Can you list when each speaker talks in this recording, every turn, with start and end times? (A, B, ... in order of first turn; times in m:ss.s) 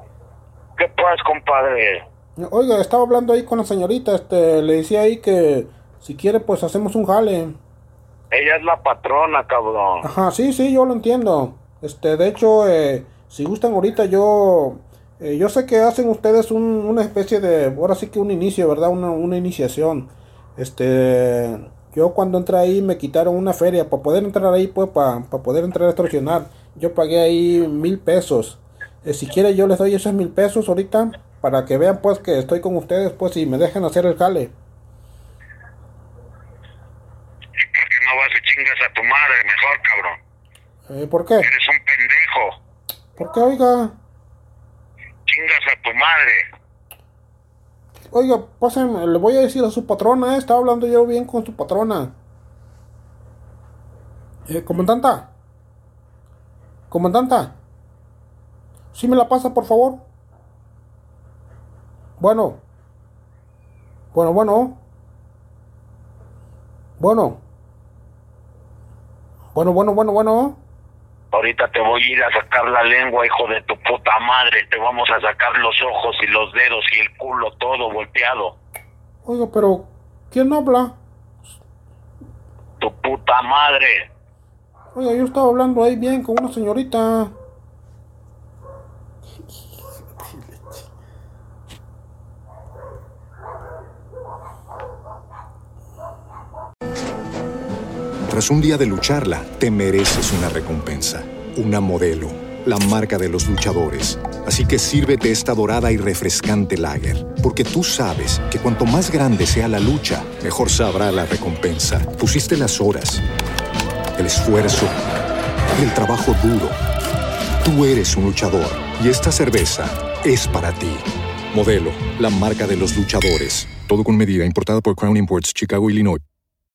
0:00.8-0:02.0 A
0:02.4-0:07.6 B
0:08.3-0:10.0 A
0:10.0-0:34.5 B
0:37.6-0:40.2 A
0:40.9-0:41.5 B
0:41.4-0:42.6 A
0:43.2-0:44.0 B
0:45.2-0:46.4 A
0:48.1-0:52.1 B
0:54.5-0:55.3 B
0:56.9-0:57.6 B
0:58.9-1:00.0 B
1:02.2-1:02.6 B
1:04.1-1:04.8 B
1:07.0-1:07.4 B
1:09.5-1:10.6 B
1:11.3-1:18.6 A
1:19.2-1:21.0 B
1:22.8-1:24.1 A
1:24.9-1:27.3 B
1:30.2-1:30.6 B
1:38.3-1:53.2 C
1:54.2-1:55.0 C
1:55.7-1:56.8 C
1:57.6-2:06.2 C